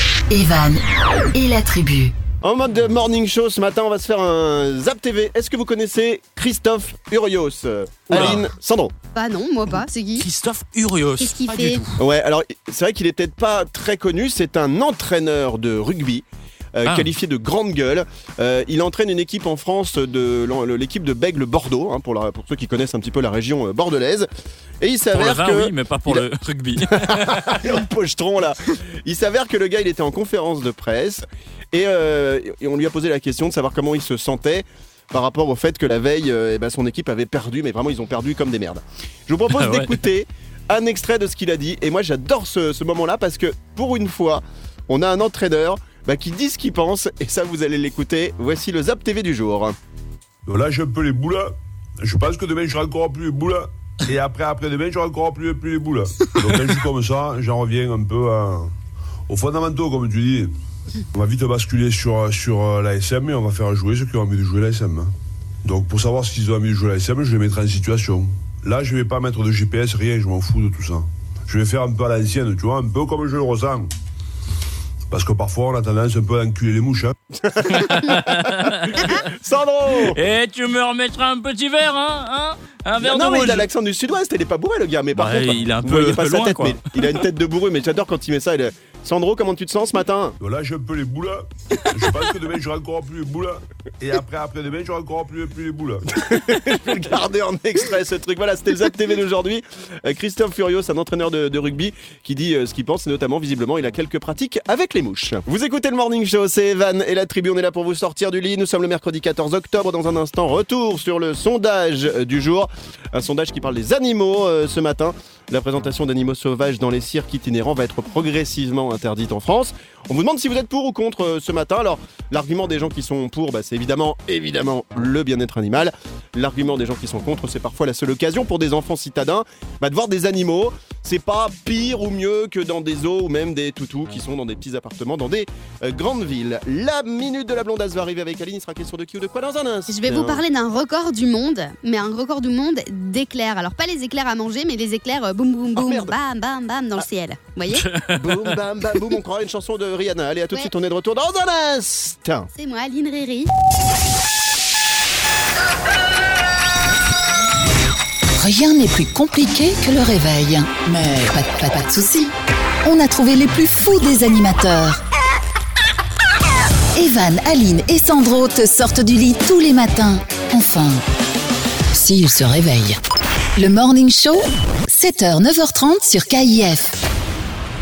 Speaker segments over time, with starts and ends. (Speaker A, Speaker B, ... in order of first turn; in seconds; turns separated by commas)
Speaker A: 0.3-2.1, Speaker B: 2.4-8.9, Speaker C: 8.1-8.5, Speaker D: 9.1-10.2, Speaker C: 10.2-12.0, Speaker D: 11.2-11.8, Speaker B: 12.0-24.3, Speaker C: 16.8-17.1, Speaker B: 24.8-26.2, Speaker C: 25.1-27.6, Speaker B: 26.9-49.8, Speaker C: 39.5-40.0, Speaker E: 50.5-58.7, Speaker E: 59.3-60.5, Speaker E: 61.1-65.1, Speaker E: 65.6-73.9, Speaker E: 75.1-77.1, Speaker B: 77.4-80.2, Speaker C: 77.7-79.2, Speaker C: 80.0-83.7, Speaker B: 83.0-90.4, Speaker C: 85.1-86.8, Speaker E: 90.4-96.2, Speaker B: 96.2-140.4, Speaker D: 139.9-147.8, Speaker B: 145.7-146.1, Speaker C: 147.7-148.6, Speaker B: 148.1-152.5, Speaker D: 152.5-153.5, Speaker A: 158.3-165.0, Speaker A: 166.9-171.0, Speaker A: 171.9-173.0, Speaker A: 173.6-177.0